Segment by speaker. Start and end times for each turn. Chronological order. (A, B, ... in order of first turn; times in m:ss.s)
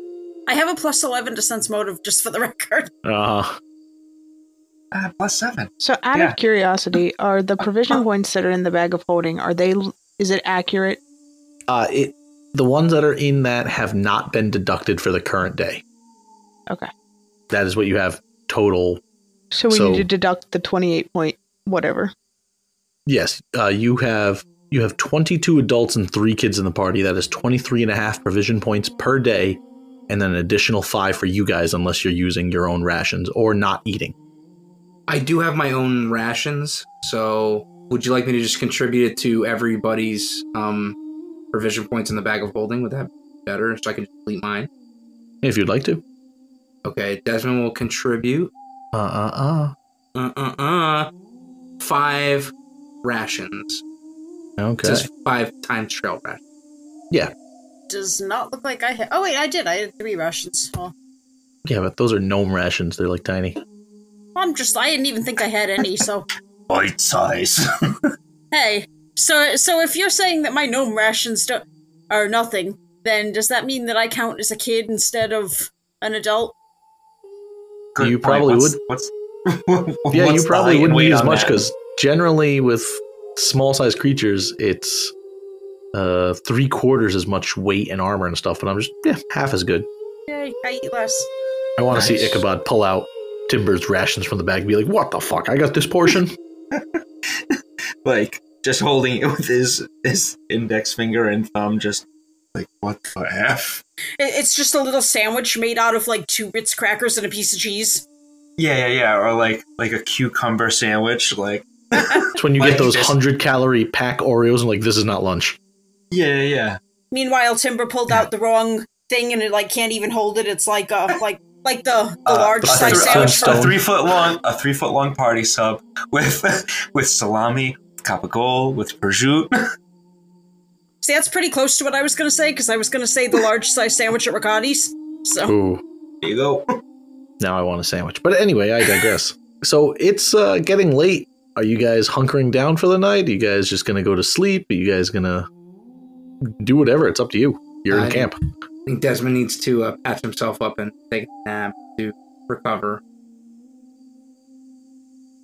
0:00.5-0:02.9 A
0:03.0-0:03.6 B
0:04.9-0:06.4 C
0:05.8-0:11.0 D
0:11.7-0:15.8 B
0:17.5-0:19.0 B
0:19.5-0:22.1 D
0:19.7-0:20.1 B
0:23.0-0:34.1 B
0:35.1-0:41.0 E
0:41.5-0:44.7 E
0:45.4-0:46.0 B
0:46.8-0:48.5 E
0:48.9-0:49.7 B
0:50.1-0:51.1 E
0:51.8-0:52.5 E
0:53.0-0:53.8 E
0:54.6-0:55.1 B
0:54.8-0:56.4 E
0:57.9-1:00.9 A
1:01.6-1:03.6 B
1:04.4-1:06.3 A
1:06.7-1:07.6 C
1:08.5-1:16.5 A
1:17.9-1:21.6 C
1:18.0-1:18.8 B
1:20.1-1:25.1 B
1:25.9-1:29.9 B
1:30.3-1:31.3 A
1:31.8-1:36.4 B
1:31.9-1:32.4 C
1:37.3-1:43.8 C
1:44.2-1:48.0 A
1:48.6-1:53.1 C
1:52.4-1:55.6 B
1:56.1-1:56.8 C
1:57.1-2:03.7 A
2:02.2-2:09.5 C
2:02.6-2:03.8 B
2:11.0-2:15.5 A
2:15.4-2:15.8 B
2:16.2-2:16.8 C
2:17.4-2:25.5 B
2:26.4-2:28.4 B
2:27.9-2:28.3 E
2:28.9-2:33.0 E